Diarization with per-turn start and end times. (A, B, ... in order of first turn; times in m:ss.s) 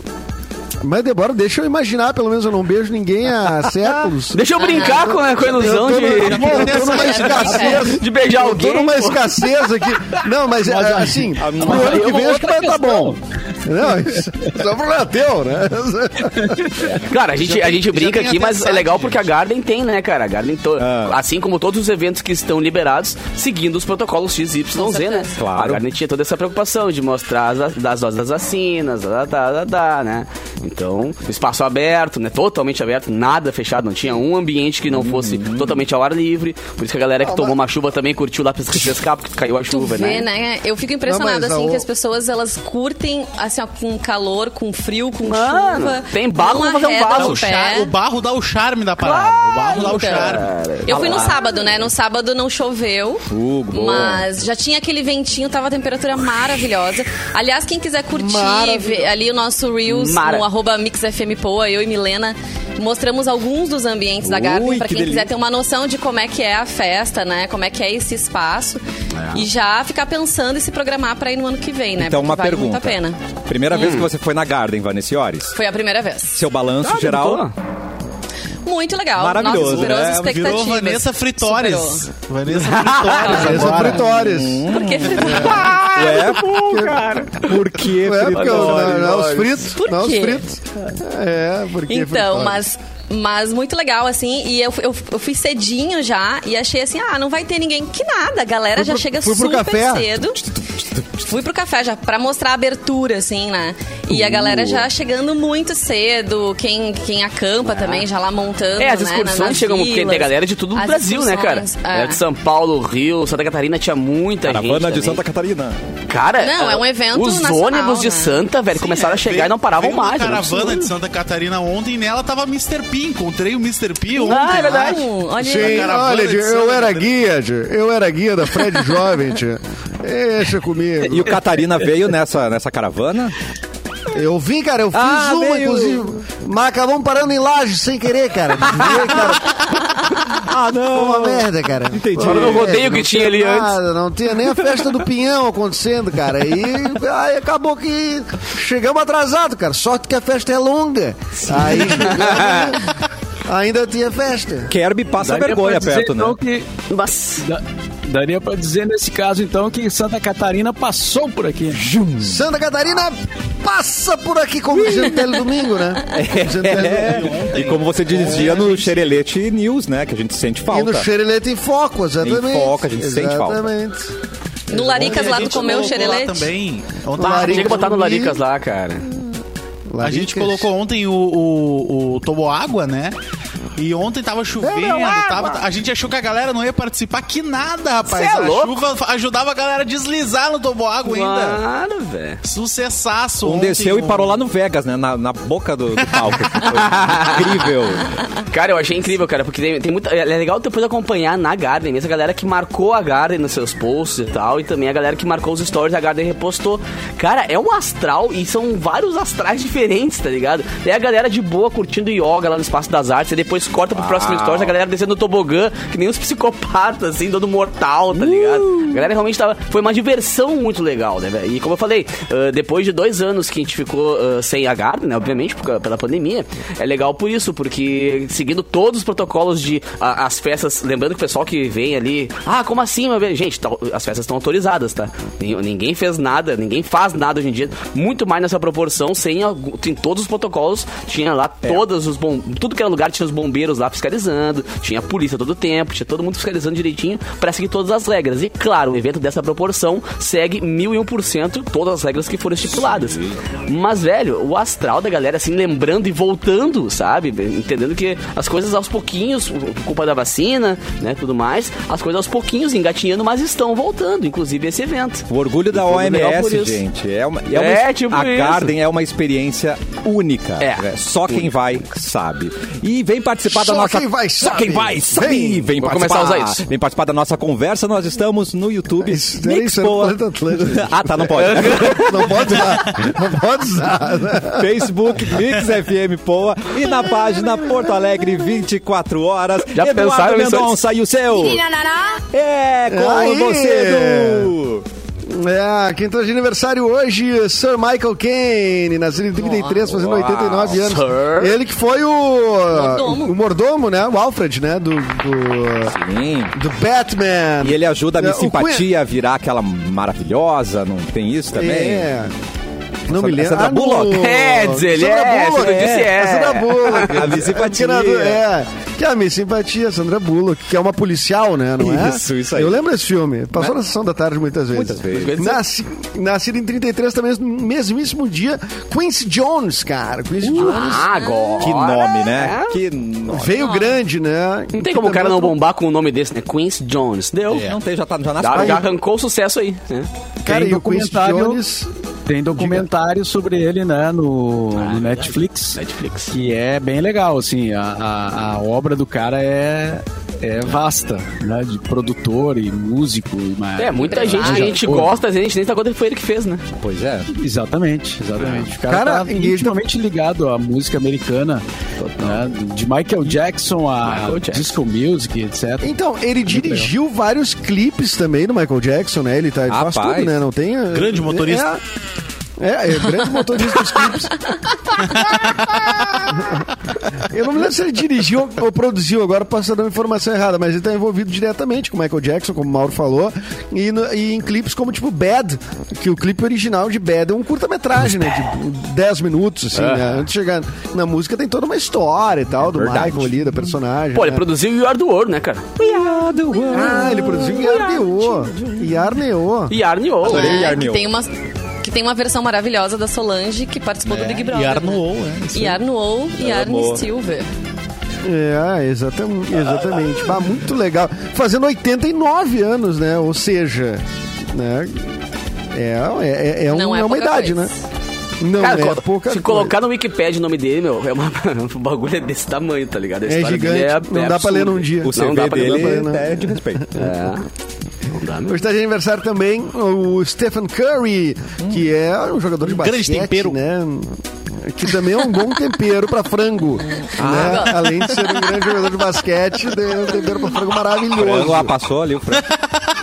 0:00.8-0:16.9 A
0:04.3-0:09.9 B
0:04.6-0:05.1 C
0:06.2-0:07.8 D
0:06.6-0:07.9 C
0:10.6-0:13.2 E
0:11.4-0:12.0 F
0:16.3-0:16.6 E
0:16.9-0:40.2 B
0:17.3-0:19.2 D
0:20.8-0:21.2 F
0:24.8-0:25.4 C
0:25.4-0:25.8 F
0:34.9-0:35.8 F
0:37.2-0:37.6 A
0:39.7-0:47.9 C
0:41.0-0:41.9 A
0:45.2-0:47.5 B
0:47.1-0:50.6 D
0:49.0-0:51.3 B
0:49.7-1:08.8 C
0:50.9-0:51.3 F
0:53.3-0:54.2 F
0:58.2-0:59.1 A
0:59.9-1:00.4 B
1:04.2-1:05.3 F
1:09.1-1:09.5 B
1:09.3-1:13.2 C
1:12.0-1:15.6 F
1:13.7-1:14.1 B
1:15.5-1:16.4 C
1:16.3-1:17.5 F
1:16.8-1:17.5 B
1:18.6-1:22.0 C
1:19.2-1:20.5 F
1:19.6-1:24.2 D
1:22.5-1:23.6 B
1:23.1-1:23.8 C
1:23.3-1:25.7 A
1:24.2-1:26.9 F
1:24.7-1:26.0 C
1:25.2-1:27.6 B
1:26.5-1:32.6 A
1:27.4-1:29.4 F
1:28.2-1:29.6 B
1:29.8-1:30.4 C
1:31.9-1:40.4 C
1:38.8-1:40.1 A
1:40.4-1:41.3 F
1:41.3-1:52.2 C
1:44.1-1:44.8 F
1:47.6-1:48.0 B
1:48.8-1:55.2 B
1:54.4-1:55.8 F
1:56.1-2:00.8 B
1:56.4-1:58.4 C
1:58.8-2:07.1 D
2:04.2-2:06.0 C
2:04.2-2:05.1 B
2:05.4-2:11.4 A
2:11.0-2:13.3 F
2:14.1-2:19.6 A
2:14.9-2:16.1 F
2:18.7-2:19.5 F
2:20.2-2:22.8 F
2:20.9-2:32.9 A
2:22.2-2:23.8 B
2:31.6-2:32.1 F
2:31.7-2:32.8 B
2:33.4-2:34.7 A
2:34.7-2:36.4 F
2:35.2-2:36.7 E
2:36.9-2:37.4 B
2:37.4-2:41.8 E
2:41.7-2:42.4 F
2:42.2-2:47.3 A
2:44.8-2:45.4 F
2:46.1-2:51.1 F
2:46.7-2:48.9 D
2:48.1-2:48.6 A
2:50.7-2:54.1 A
2:52.2-2:53.6 F
2:54.7-2:55.8 A
2:54.7-2:56.5 C
2:54.8-2:57.9 D
2:57.2-2:58.4 A
2:57.3-2:59.1 B
2:59.9-3:00.7 A
3:00.0-3:03.2 D
3:03.8-3:11.6 D
3:04.6-3:05.7 A
3:08.0-3:08.8 B
3:11.0-3:12.4 B
3:12.4-3:14.3 D
3:13.4-3:18.2 F
3:16.8-3:17.6 B
3:18.5-4:26.8 B
3:33.9-3:34.8 F
3:38.2-3:39.0 F
4:12.7-4:13.4 F
4:25.3-4:42.5 F
4:27.5-4:28.7 B
4:30.6-4:31.5 B
4:33.4-4:35.7 A
4:35.8-4:36.6 B
4:39.0-4:44.8 A
4:41.4-4:42.8 B
4:44.5-4:54.8 F
4:49.7-4:50.8 B
4:52.9-4:54.5 A
4:55.3-5:06.0 A
4:59.4-4:59.8 C
4:59.9-5:01.6 B
5:02.7-5:03.3 C
5:05.9-5:06.5 F
5:06.5-5:08.8 A
5:07.6-5:12.1 F
5:11.5-5:12.3 A
5:13.1-5:31.1 A
5:13.1-5:14.2 F
5:14.1-5:17.3 B
5:17.0-5:18.4 F
5:21.8-5:22.8 F
5:24.7-5:25.4 F
5:25.1-5:25.6 B
5:30.4-5:32.8 B
5:30.6-5:31.7 C
5:31.6-5:33.6 F
5:33.3-5:35.6 A
5:33.6-5:33.9 C
5:34.7-5:37.8 B
5:37.5-5:38.8 F
5:38.4-5:40.1 B
5:38.5-5:38.8 A
5:40.4-5:41.9 A
5:40.4-5:41.6 E
5:42.3-5:45.8 E
5:42.5-5:42.9 A
5:44.7-5:46.3 B
5:46.3-5:55.2 E
5:53.8-5:56.6 B
5:54.1-5:54.8 C
5:56.8-5:57.3 F
5:57.3-6:01.6 E
5:58.9-5:59.8 A
6:02.0-6:02.4 B
6:02.2-6:05.9 E
6:04.0-6:04.7 B
6:05.8-6:11.8 A
6:06.5-6:06.9 E
6:09.7-6:10.4 F
6:10.9-6:11.7 D
6:12.6-6:14.4 A
6:15.2-6:16.2 D
6:16.3-6:16.7 A
6:17.2-6:34.5 A
6:29.7-6:30.2 B
6:32.7-6:33.5 F
6:34.1-6:35.8 B
6:35.8-6:37.8 F
6:36.7-6:37.3 C
6:36.7-6:39.8 A
6:37.3-6:38.7 B
6:39.7-6:40.7 B
6:40.2-6:41.1 F
6:40.3-6:41.3 C
6:41.8-6:45.0 C
6:44.0-6:45.8 D
6:45.5-6:47.5 C
6:46.4-6:47.0 F
6:48.2-6:55.2 A
6:55.7-6:57.7 A
6:56.7-6:57.7 C
6:58.4-6:59.7 A
6:58.6-7:06.1 B
7:03.2-7:07.1 A
7:05.0-7:06.9 F
7:06.9-7:07.4 B
7:08.1-7:08.6 B
7:08.5-7:21.7 A
7:12.6-7:13.6 D
7:17.2-7:17.8 F
7:17.3-7:17.7 C
7:21.1-7:22.5 F